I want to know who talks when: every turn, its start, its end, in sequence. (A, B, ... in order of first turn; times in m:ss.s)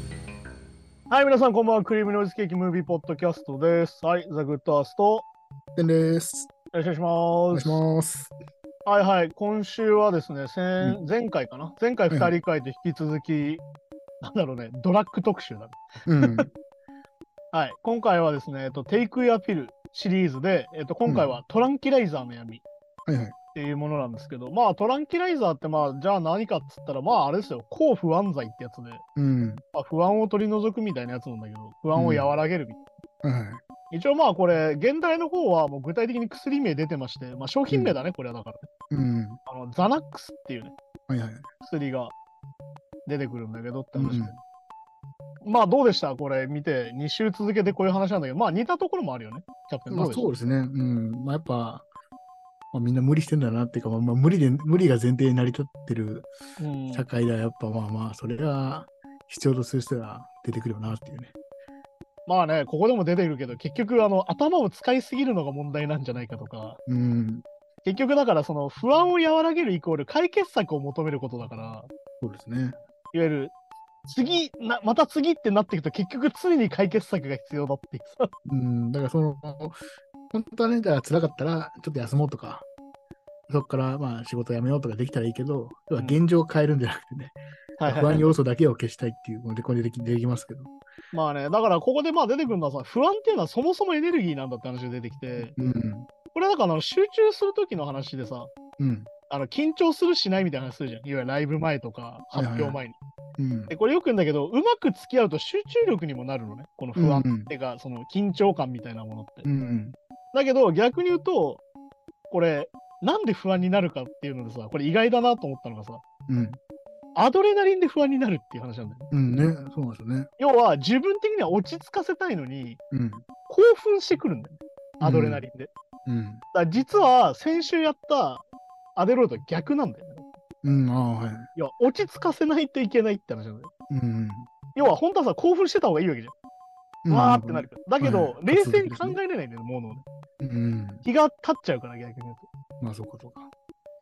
0:01.1-0:05.2 A
0:05.7-0:06.5 B
0:06.7-0:07.8 A
0:07.5-0:08.3 B
0:08.8-0:13.6 A
0:14.2-0:16.5 A
0:16.0-0:16.5 B
0:17.5-0:22.6 A
0:21.0-0:21.3 B
0:23.0-0:23.3 B
0:23.5-0:29.0 A
0:29.2-0:29.6 B
0:29.7-0:32.8 A
0:31.9-0:32.4 B
0:33.2-0:33.6 B
0:33.9-0:38.7 A
0:37.7-0:38.0 B
0:38.9-0:39.4 B
0:39.4-0:40.7 A
0:41.1-0:41.5 B
0:41.6-0:42.1 A
0:43.0-0:44.4 A
0:43.9-0:44.3 B
0:45.4-0:50.3 A
0:49.9-0:51.8 B
0:52.7-0:56.3 B
0:56.6-0:57.0 A
0:56.9-1:01.3 B
1:02.3-1:06.8 A
1:06.8-1:07.4 B
1:07.8-1:11.9 A
1:12.2-1:12.8 B
1:13.1-1:13.5 A
1:14.0-1:18.3 A
1:18.4-1:19.8 B
1:20.3-1:22.7 B
1:23.5-1:30.7 B
1:27.8-1:28.3 A
1:31.1-1:35.5 A
1:35.4-1:36.1 B
1:36.3-1:38.5 A
1:38.8-1:39.1 B
1:39.3-1:43.0 A
1:42.3-1:42.8 B
1:43.4-1:43.7 B
1:43.7-1:49.5 A
1:47.0-1:47.5 B
1:49.4-1:50.0 B
1:50.3-1:51.6 A
1:52.3-1:56.0 A
1:56.3-1:56.6 B
1:57.1-1:59.1 A
1:59.1-2:00.3 B
2:00.4-2:02.8 A
2:02.9-2:03.2 B
2:03.5-2:05.7 A
2:05.0-2:05.5 B
2:06.0-2:06.4 B
2:06.5-2:08.4 A
2:09.0-2:10.3 A
2:10.6-2:11.5 B
2:11.5-2:13.7 A
2:13.9-2:14.5 B
2:14.7-2:16.3 A
2:17.0-2:19.2 B
2:17.1-2:20.0 A
2:20.4-2:21.0 B
2:21.0-2:22.5 A
2:22.8-2:23.5 B